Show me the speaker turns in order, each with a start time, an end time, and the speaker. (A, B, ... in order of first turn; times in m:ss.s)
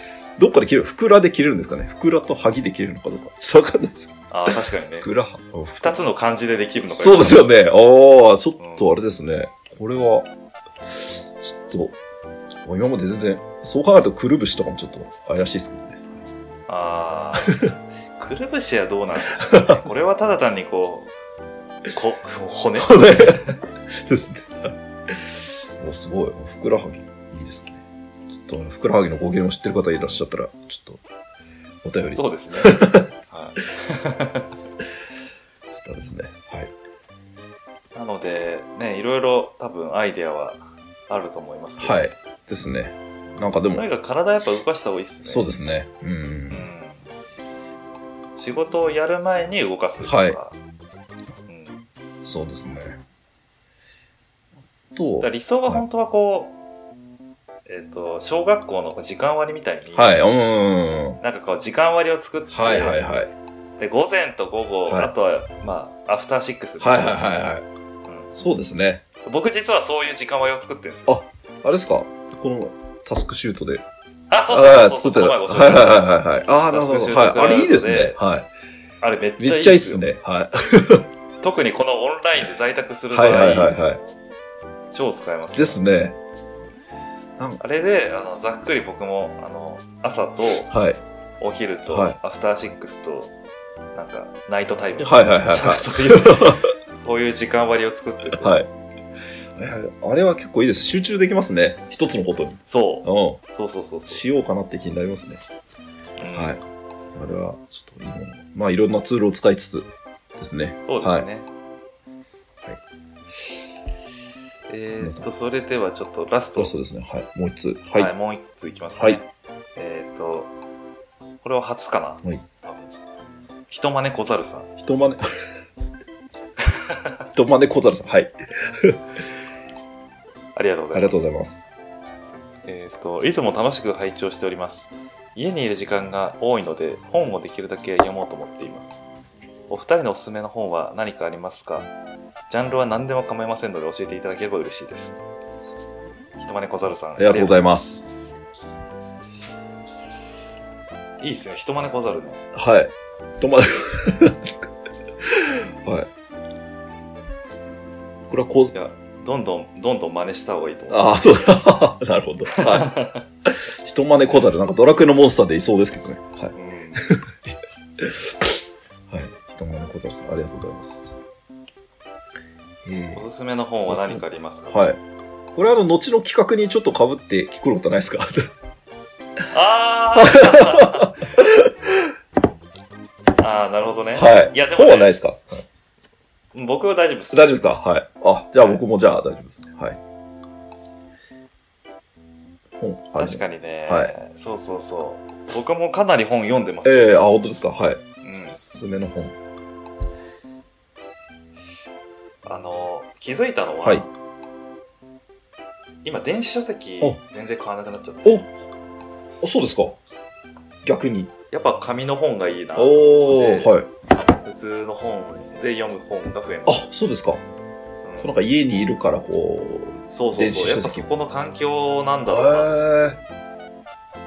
0:00.4-0:06.0 A
0:04.3-0:05.1 B
0:05.8-0:07.5 B
0:06.9-0:10.3 A
0:08.6-0:08.9 B
0:11.4-0:12.0 A
0:12.6-0:16.0 A
0:16.7-0:21.1 B
0:17.4-0:17.7 A
0:19.4-0:19.8 A
0:21.9-0:23.6 B
0:22.8-0:25.2 A
0:25.8-0:27.8 A
0:28.4-0:31.0 A
0:31.8-0:33.0 A
0:32.1-0:34.5 B
0:35.7-0:36.7 A
0:37.9-0:42.0 B
0:41.8-0:43.8 A
0:43.7-0:45.5 B
0:45.2-0:46.6 A
0:46.5-0:47.1 B
0:48.4-0:50.6 B
0:50.0-0:50.4 A
0:51.5-0:51.8 B
0:52.2-0:53.0 A
0:54.9-0:55.8 A
0:55.2-0:56.6 B
0:57.6-1:00.1 B
0:59.9-1:01.2 A
1:01.2-1:03.0 B
1:02.5-1:03.3 A
1:03.8-1:07.3 B
1:04.9-1:05.1 A
1:06.8-1:07.6 A
1:08.0-1:08.4 B
1:08.4-1:09.0 A
1:09.2-1:11.2 B
1:11.1-1:13.8 A
1:14.3-1:16.1 B
1:14.5-1:18.5 A
1:16.7-1:18.2 B
1:19.0-1:20.0 B
1:19.4-1:21.1 A
1:21.4-1:23.8 B
1:23.1-1:24.0 A
1:24.9-1:25.8 B
1:25.5-1:26.2 A
1:27.6-1:30.7 B
1:30.7-1:31.0 A
1:31.4-1:33.3 B
1:31.9-1:32.2 A
1:33.9-1:38.6 B
1:35.0-1:36.6 A
1:38.4-1:38.7 A
1:39.6-1:43.4 A
1:42.7-1:44.2 B
1:44.1-1:45.4 A
1:46.2-1:46.6 B
1:46.3-1:46.6 A
1:47.1-1:51.3 A
1:50.8-1:51.5 B
1:54.7-1:56.7 B
1:55.0-1:55.2 A
1:56.6-1:58.1 A
1:57.9-2:00.5 B
2:01.4-2:02.9 B
2:03.7-2:04.7 B
2:04.8-2:05.2 A
2:07.3-2:09.0 A
2:10.5-2:11.4 B
2:10.9-2:11.7 A
2:12.7-2:19.0 B
2:19.7-2:21.9 B
2:22.5-2:25.2 B
2:26.4-2:27.6 B
2:27.2-2:28.1 A
2:31.2-2:32.4 B
2:32.5-2:34.7 A
2:35.2-2:36.1 A
2:38.3-2:38.7 A
2:38.7-2:41.2 B
2:40.9-2:42.9 A
2:42.5-2:43.2 B
2:43.4-2:48.6 A
2:46.5-2:47.0 B
2:49.1-2:51.2 A
2:52.8-2:53.2 A
2:53.1-2:54.9 B
2:53.9-2:55.0 A
2:55.5-2:58.5 A
2:59.5-3:01.2 B
3:00.2-3:02.1 A
3:03.4-3:05.2 B
3:04.1-3:05.6 A
3:06.5-3:07.6 B
3:07.3-3:10.0 A
3:12.8-3:14.1 A
3:13.2-3:17.2 B
3:16.8-3:19.3 A
3:18.2-3:18.6 B
3:22.4-3:24.1 B
3:26.0-3:28.5 B
3:29.4-3:30.0 A
3:30.8-3:31.3 A
3:31.5-3:33.7 B
3:32.8-3:33.9 A
3:34.4-3:36.9 B
3:36.6-3:37.4 A
3:38.0-3:38.4 B
3:38.2-3:41.0 A
3:40.1-3:43.0 B
3:42.3-3:43.2 A